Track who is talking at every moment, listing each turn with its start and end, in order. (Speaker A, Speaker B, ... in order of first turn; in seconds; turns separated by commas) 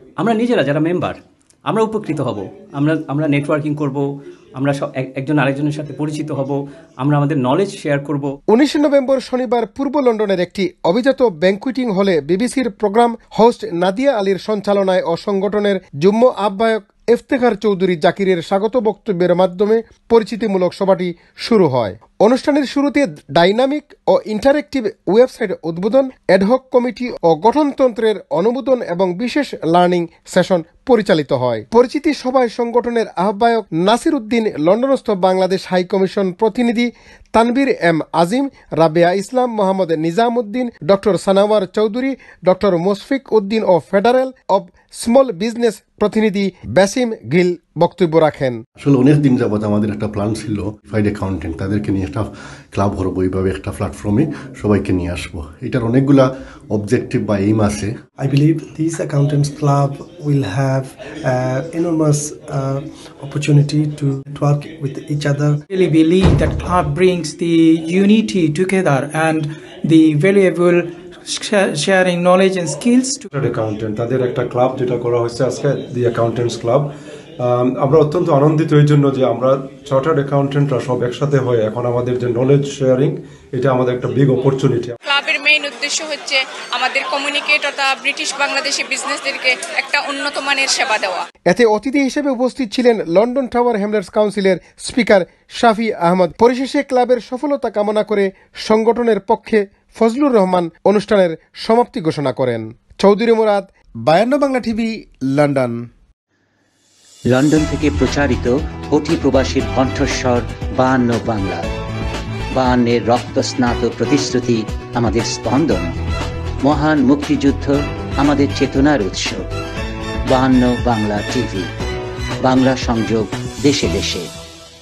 Speaker A: 0.2-4.1, Speaker A: 4.6-8.3, Speaker B: 8.5-48.6, Speaker C: 48.8-57.9, Speaker D: 58.2-65.6, Speaker E: 65.7-73.3, Speaker F: 73.3-85.0, Speaker G: 85.1-91.2, Speaker B: 91.5-105.8, Speaker H: 107.3-111.7, Speaker H: 112.5-115.9, Speaker H: 116.6-119.5, Speaker H: 120.3-121.7, Speaker H: 122.4-124.3